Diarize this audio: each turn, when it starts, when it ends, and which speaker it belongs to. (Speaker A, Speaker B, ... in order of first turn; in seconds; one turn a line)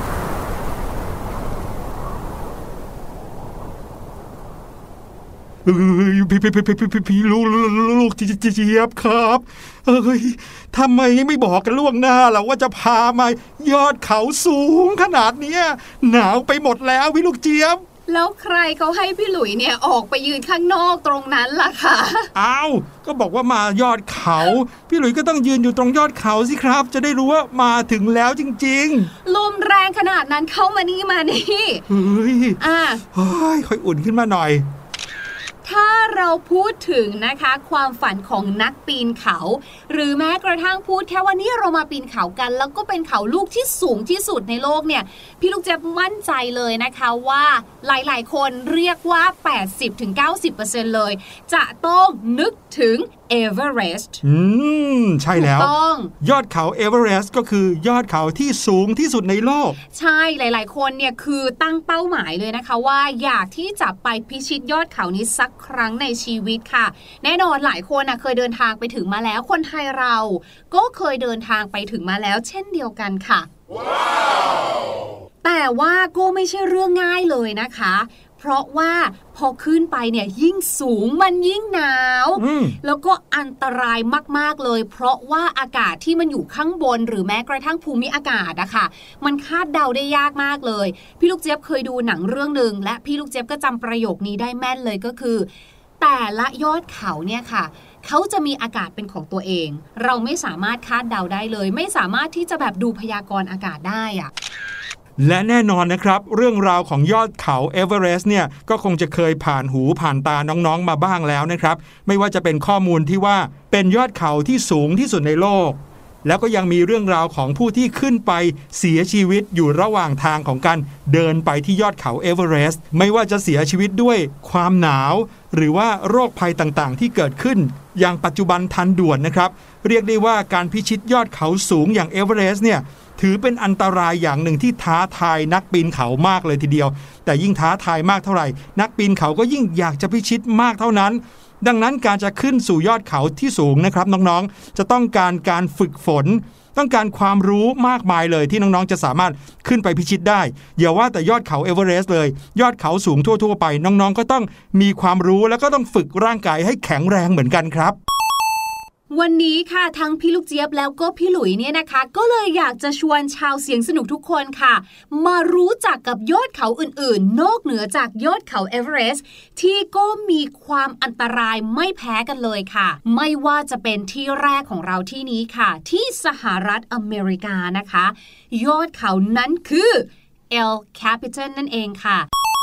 Speaker A: 5.6-17.8
Speaker B: 18.1-22.3
Speaker A: 22.3-29.1
Speaker B: 29.2-31.8
Speaker A: 31.9-32.6
Speaker B: 32.6-33.0
Speaker A: 33.1-34.6
Speaker B: 35.6-54.2
Speaker A: 54.2-59.8
Speaker B: 55.4-56.1
Speaker B: 59.9-73.5
Speaker B: 75.4-95.5
Speaker A: 82.4-82.8
Speaker B: 96.0-104.3
Speaker A: 105.2-158.0
Speaker B: 159.1-182.3